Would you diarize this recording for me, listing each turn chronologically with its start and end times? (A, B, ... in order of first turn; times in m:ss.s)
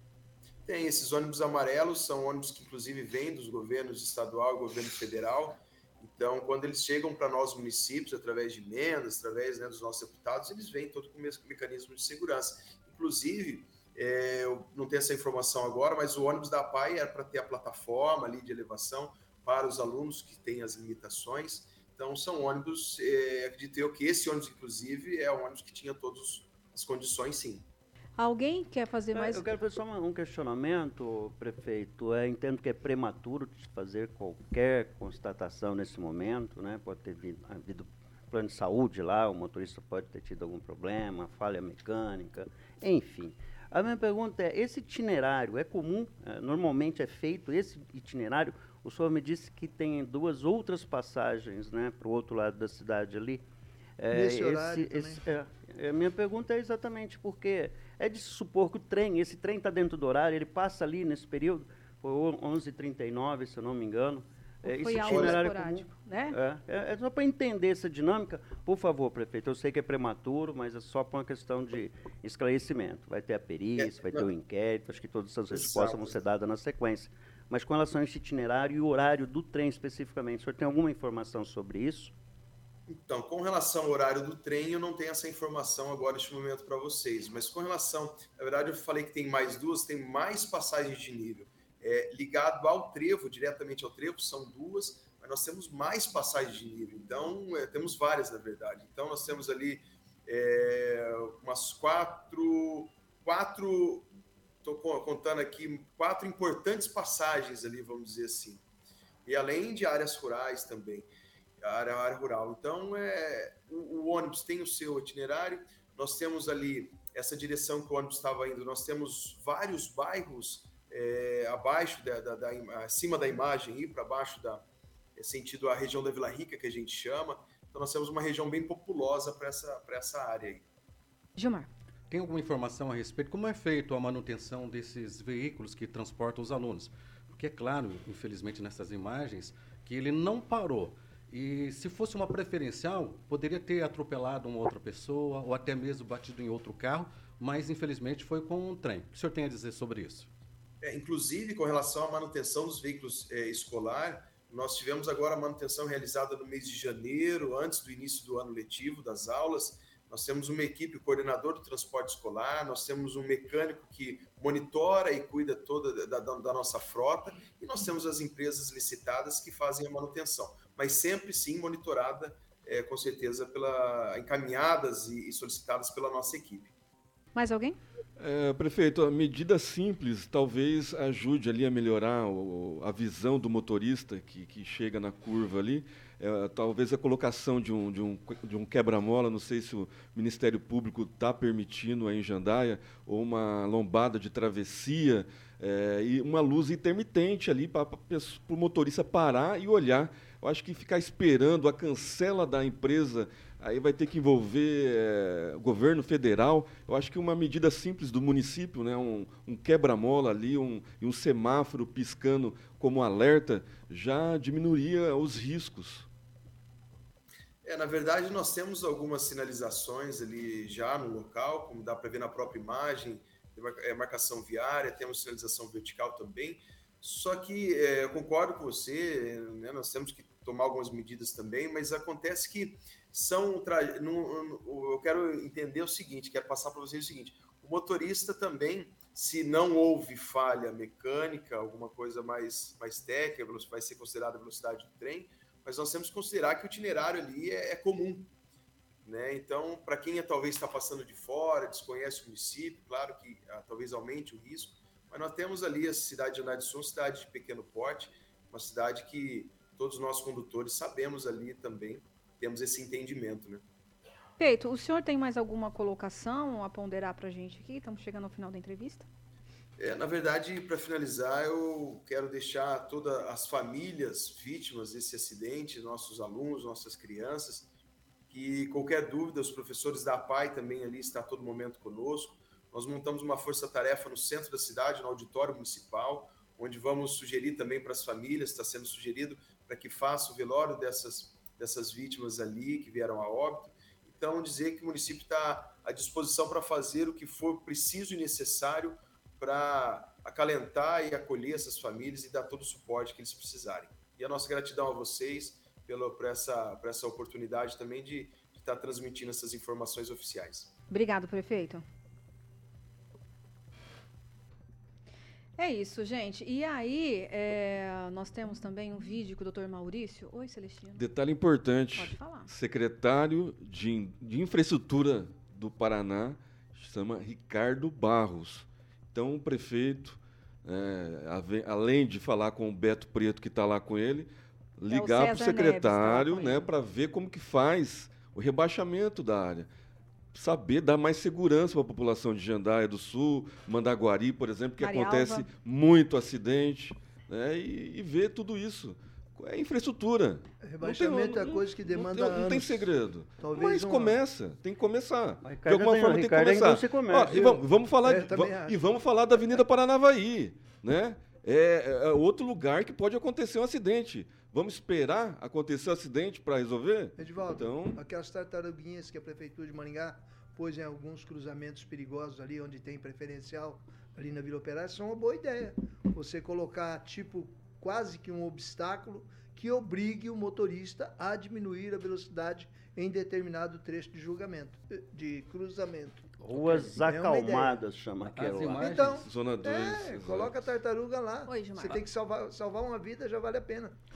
0:00.6-0:27.6 A
0:28.2-0:29.5 B
0:29.1-0:53.5 C
0:54.0-1:22.1 C
0:54.1-0:55.2 D
1:04.6-1:06.4 B
1:05.1-1:05.3 A
1:13.8-1:14.2 A
1:15.5-1:16.1 A
1:22.9-1:44.1 A
1:44.6-1:48.6 A
1:49.2-1:51.1 A
1:51.6-2:04.6 A
2:05.2-2:10.6 A
2:11.4-2:11.7 B
2:12.1-2:30.3 E
2:30.8-2:56.7 A
2:57.3-2:57.8 B
2:58.2-3:36.1 F
3:37.6-4:08.3 A
4:09.0-4:23.6 A
4:24.4-4:29.1 B
4:29.8-4:37.7 A
4:38.3-5:10.7 A
5:10.9-5:11.8 B
5:15.6-5:21.0 B
5:20.9-5:39.7 F
5:21.9-5:22.5 B
5:34.9-5:36.7 B
5:40.3-6:08.0 F
5:44.8-5:45.5 B
5:50.6-5:54.2 D
5:55.4-5:57.4 C
5:57.2-5:58.8 D
6:07.2-6:27.8 D
6:26.4-6:29.0 C
6:26.5-6:26.9 E
6:28.3-6:29.3 E
6:28.7-6:34.0 D
6:29.2-6:30.7 F
6:31.4-6:32.0 B